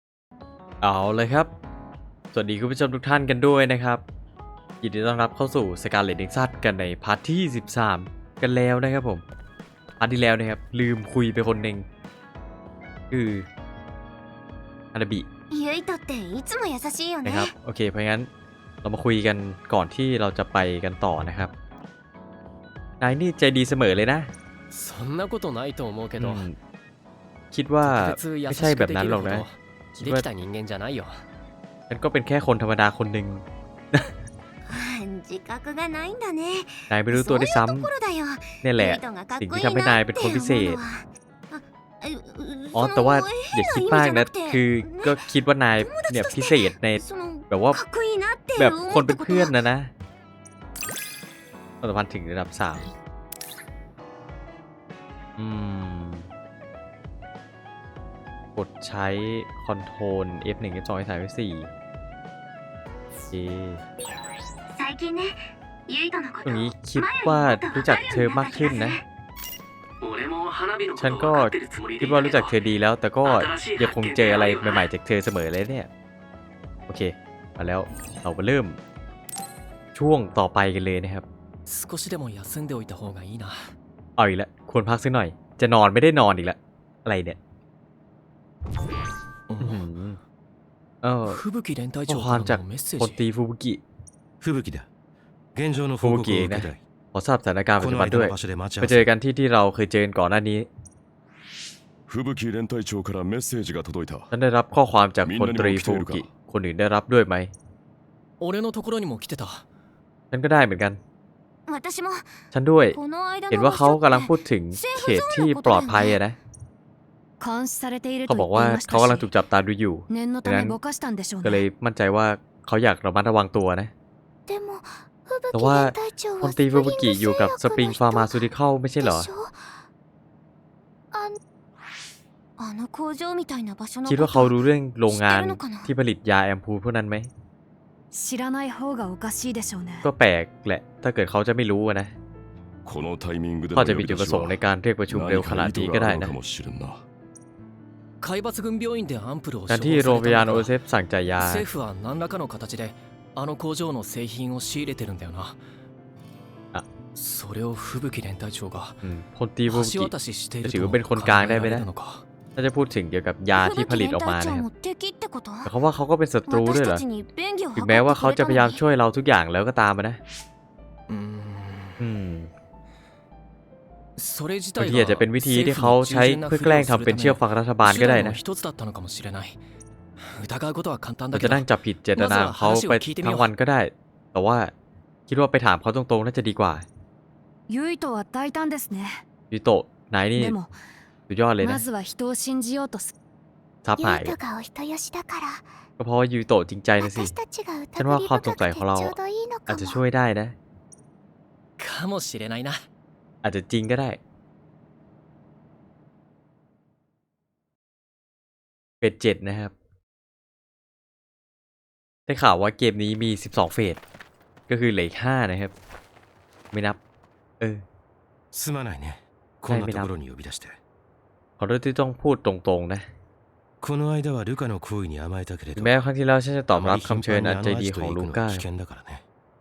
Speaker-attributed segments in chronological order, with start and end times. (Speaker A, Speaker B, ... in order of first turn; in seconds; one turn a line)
Speaker A: 0.8-1.5
Speaker A: 2.3-4.0
Speaker A: 4.8-9.2
Speaker A: 10.0-11.8
Speaker A: 13.1-13.4
Speaker A: 14.9-15.3
Speaker B: 15.5-17.5
Speaker A: 17.2-18.3
Speaker A: 18.8-21.5
Speaker A: 23.0-24.3
Speaker C: 24.7-26.4
Speaker A: 26.2-26.6
Speaker A: 27.5-29.4
Speaker C: 27.8-31.2
Speaker A: 31.9-34.1
Speaker B: 34.7-45.2
Speaker A: 36.9-37.9
Speaker A: 38.6-40.8
Speaker A: 42.7-47.8
Speaker B: 45.8-49.5
Speaker A: 48.5-49.9
Speaker A: 51.8-52.8
Speaker A: 55.4-56.3
Speaker A: 58.5-61.7
Speaker A: 63.3-63.8
Speaker B: 64.7-69.0
Speaker A: 66.4-69.0
Speaker C: 70.0-72.5
Speaker A: 71.0-75.9
Speaker C: 73.2-74.9
Speaker A: 76.9-78.8
Speaker A: 79.9-81.2
Speaker C: 81.7-83.7
Speaker A: 84.2-87.4
Speaker C: 89.5-89.8
Speaker A: 89.6-90.2
Speaker A: 91.0-91.4
Speaker C: 91.2-93.2
Speaker A: 92.1-93.8
Speaker D: 94.4-94.9
Speaker D: 95.5-96.8
Speaker A: 96.0-100.7
Speaker D: 97.8-99.1
Speaker E: 102.1-104.3
Speaker A: 104.3-107.5
Speaker E: 105.2-106.3
Speaker C: 108.4-109.6
Speaker A: 110.3-111.0
Speaker B: 111.7-112.3
Speaker A: 112.5-113.0
Speaker B: 112.9-116.2
Speaker A: 113.5-116.4
Speaker F: 117.4-119.3
Speaker A: 118.3-120.8
Speaker F: 120.1-121.6
Speaker A: 121.4-123.9
Speaker B: 124.5-129.8
Speaker A: 125.5-129.3
Speaker B: 131.1-131.4
Speaker B: 132.6-134.5
Speaker A: 134.1-137.3
Speaker B: 135.1-135.9
Speaker F: 138.1-140.1
Speaker A: 140.0-142.1
Speaker E: 142.8-147.0
Speaker A: 143.7-146.3
Speaker C: 148.2-150.7
Speaker A: 149.7-151.6
Speaker C: 151.4-155.6
Speaker C: 157.1-159.0
Speaker A: 159.0-161.9
Speaker C: 159.7-162.2
Speaker A: 162.6-164.6
Speaker B: 163.5-165.7
Speaker A: 165.6-167.0
Speaker B: 166.5-168.8
Speaker A: 167.7-170.2
Speaker C: 171.1-172.0
Speaker A: 172.0-172.5
Speaker C: 174.2-179.6
Speaker A: 174.8-178.4
Speaker C: 180.2-183.5
Speaker A: 181.3-184.7
Speaker A: 185.3-186.8
Speaker F: 187.7-189.2
Speaker A: 189.5-190.6
Speaker F: 190.3-190.7
Speaker A: 191.3-191.8
Speaker F: 191.6-193.1
Speaker A: 193.8-194.3
Speaker B: 194.0-195.7
Speaker A: 196.0-197.3
Speaker B: 197.0-200.0
Speaker A: 198.0-199.2
Speaker A: 199.7-200.6
Speaker C: 201.8-202.8
Speaker A: 203.4-204.2
Speaker A: 209.0-209.7
Speaker A: 212.3-214.0
Speaker A: 214.7-215.7
Speaker A: 216.7-217.0
Speaker D: 218.5-220.8
Speaker A: 219.7-220.1
Speaker A: 221.6-223.1
Speaker D: 223.8-226.0
Speaker A: 225.8-228.7
Speaker D: 226.7-229.2